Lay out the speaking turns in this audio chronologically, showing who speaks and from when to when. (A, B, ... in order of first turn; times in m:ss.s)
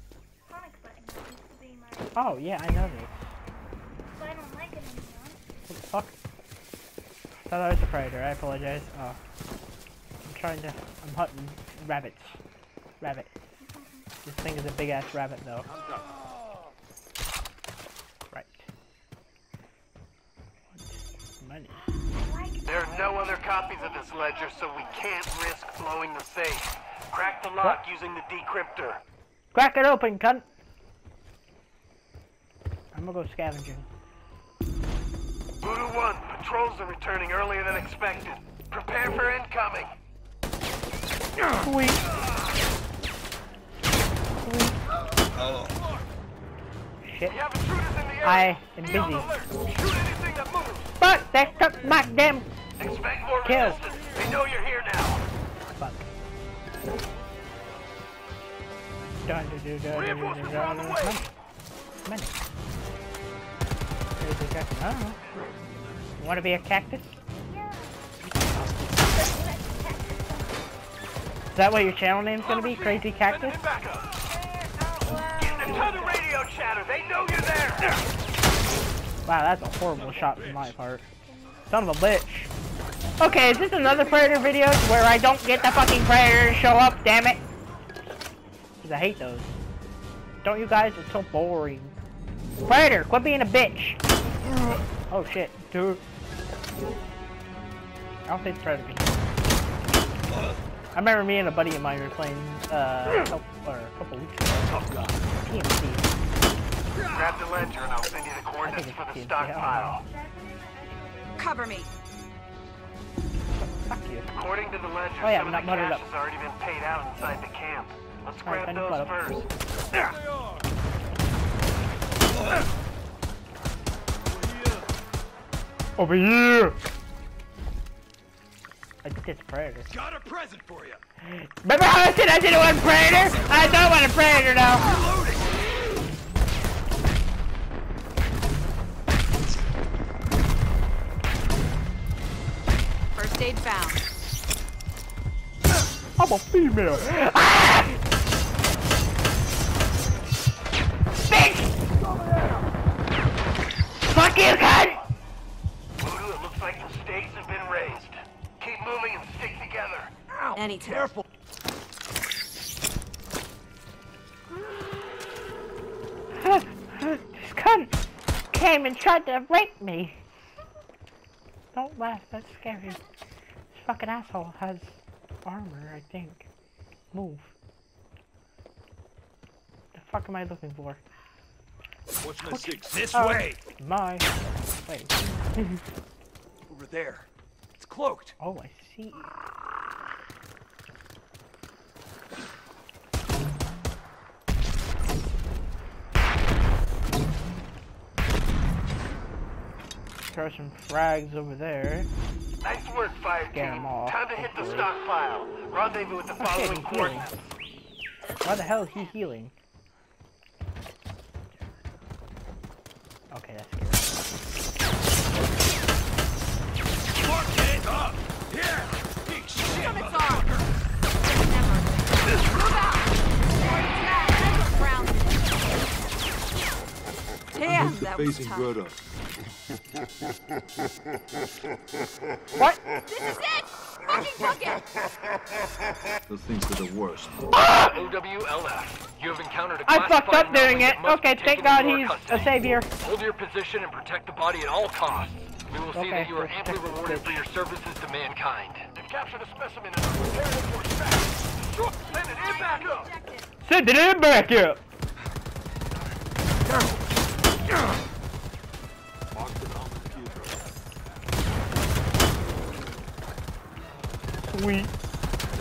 0:00.4-0:02.9 A
0:02.1-0:03.3 B
0:04.1-0:05.4 A
0:05.7-0:06.1 B
0:07.4-0:09.2 B
0:10.2-0:12.4 B
0:13.0-0:13.3 B
0:13.6-0:14.1 A
0:14.2-0:15.7 B
0:18.3-0:18.7 B
0:20.7-0:21.8 B
0:21.8-0:25.4 A
0:22.6-0:29.0 C
0:27.1-0:27.4 A
0:29.5-0:30.4 B
0:32.9-0:33.8 B
0:35.6-0:39.9 C
0:41.5-0:42.0 B
0:44.4-0:44.8 B
0:47.0-0:47.4 B
0:47.3-0:50.9 C
0:48.2-0:49.3 B
0:51.0-0:52.5 B
0:52.8-0:55.2 C
0:53.4-0:53.8 B
0:55.8-0:56.0 B
0:59.2-1:01.3 B
0:59.9-1:01.2 C
1:02.0-1:02.4 B
1:04.2-1:05.2 B
1:06.2-1:07.2 B
1:07.3-1:08.3 A
1:09.0-1:10.9 A
1:11.5-1:13.6 B
1:12.4-1:14.2 C
1:14.2-1:16.4 A
1:15.4-1:17.9 C
1:19.2-1:21.1 B
1:20.1-1:20.7 D
1:21.2-1:22.1 A
1:21.7-1:22.5 B
1:23.0-1:24.4 A
1:23.2-1:27.4 B
1:27.5-1:29.0 A
1:28.8-1:29.6 B
1:30.4-1:31.9 B
1:32.6-1:34.0 B
1:35.1-1:36.0 B
1:38.2-1:39.4 B
1:40.9-1:46.2 B
1:47.0-1:47.4 D
1:47.1-1:50.0 C
1:48.6-1:50.0 B
1:49.8-1:51.9 A
1:51.4-1:51.9 E
1:53.5-1:54.3 B
1:54.3-1:59.5 C
1:55.2-1:56.0 B
1:58.4-1:59.1 B
2:04.4-2:04.7 F
2:06.0-2:06.8 B
2:09.0-2:09.9 B
2:09.9-2:11.0 D
2:11.2-2:14.9 B
2:13.3-2:13.8 D
2:14.8-2:15.5 D
2:23.1-2:24.0 E
2:26.2-2:28.0 B
2:31.3-2:31.7 B
2:34.1-2:35.0 B
2:36.0-2:40.1 C
2:40.3-2:41.2 D
2:40.5-2:41.2 E
2:46.4-2:47.9 B
2:48.5-2:50.2 B
2:51.7-2:53.0 B
2:53.7-2:56.5 B
2:57.1-2:57.5 B
2:59.9-3:01.0 B
3:02.2-3:03.0 F
3:02.4-3:05.8 B
3:02.9-3:03.6 D
3:06.7-3:07.2 D
3:07.8-3:08.3 D
3:08.4-3:09.3 B
3:20.3-3:22.1 B
3:22.6-3:27.4 C
3:23.5-3:24.9 B
3:26.4-3:27.3 B
3:28.2-3:29.1 E
3:28.4-3:29.5 B
3:33.3-3:34.3 B
3:37.2-3:40.6 D
3:39.6-3:45.9 E
3:47.5-3:48.7 E
3:47.6-3:49.0 F
3:53.1-3:54.8 E
3:56.3-3:57.5 F
3:57.5-4:08.9 G
3:59.9-4:02.9 B
4:05.9-4:07.4 B
4:08.9-4:13.1 C
4:11.9-4:13.5 E
4:13.6-4:14.8 B
4:19.3-4:20.6 F
4:24.5-4:24.9 B